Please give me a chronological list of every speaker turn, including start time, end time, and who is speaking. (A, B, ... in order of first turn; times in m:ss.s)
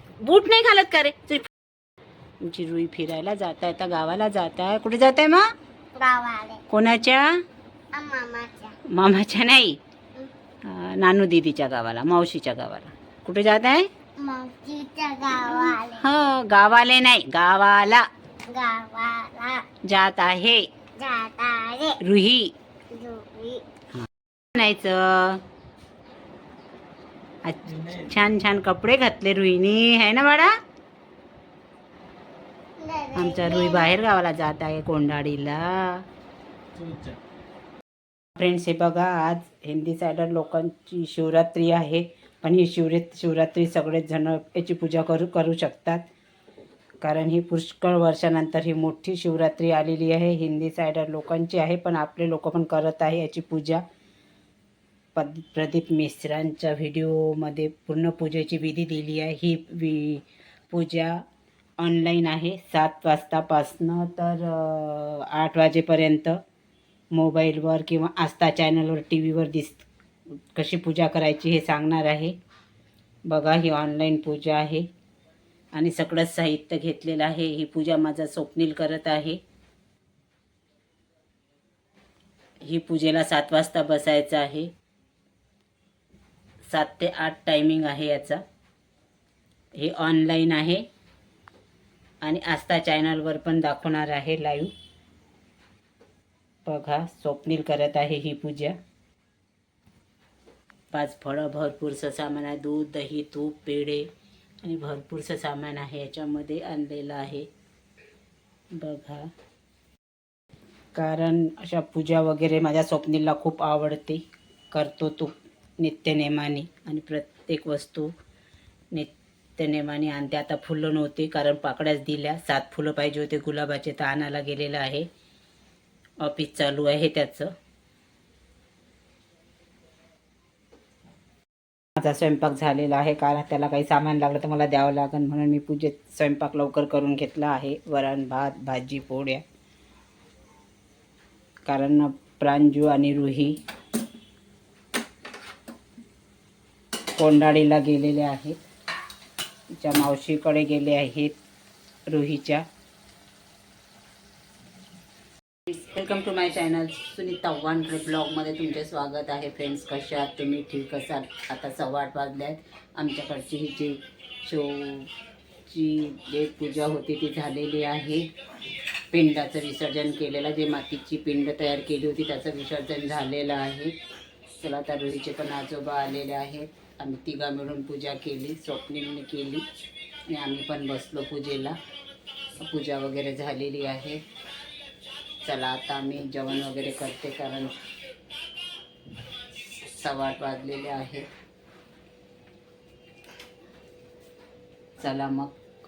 0:00.2-0:01.5 A
0:02.4-0:05.5 A
0:06.0-0:06.6 B
0:06.7-0:07.3 A
0:07.9-0:08.8 B
0:08.9-0:09.8 A
0:10.6-0:13.9 A
0:14.2-0:16.0 B
0:15.4-0:18.1 A
0:18.5-0:19.6 B
0:19.8-0:20.7 A
0:21.0-0:22.0 B
0:22.0-0:22.5 A
0:22.9-0:23.6 B
0:24.0-0:25.4 A
0:27.4-0:30.5 A
0:32.8-0:34.0 B
0:33.1-0:36.0 A
0:38.4-0:46.1 A
0:47.0-0:53.8 A
0:55.1-1:01.2 A
1:01.8-1:06.4 A
1:07.1-1:09.9 A
1:10.5-1:12.4 A
1:13.3-1:14.9 A
1:15.7-1:19.4 A
1:22.6-1:24.7 A
1:26.6-1:28.4 A
1:29.8-1:30.9 A
1:32.2-1:34.7 A
1:36.6-1:38.8 A
1:40.9-1:44.1 A
1:44.6-1:47.5 A
1:48.8-1:49.3 A
1:51.0-1:58.1 A
1:58.9-2:05.1 A
2:06.2-2:07.5 A
2:12.0-2:19.4 A
2:21.7-2:23.6 A
2:27.2-2:28.6 A
2:29.7-2:31.4 A
2:32.1-2:32.6 A
2:35.7-2:45.1 A
2:45.7-2:48.3 A
2:49.1-2:53.9 A
2:54.5-2:59.6 A
3:00.3-3:01.8 A
3:02.6-3:04.2 A
3:05.4-3:07.7 A
3:09.8-3:11.3 A
3:15.0-3:15.6 A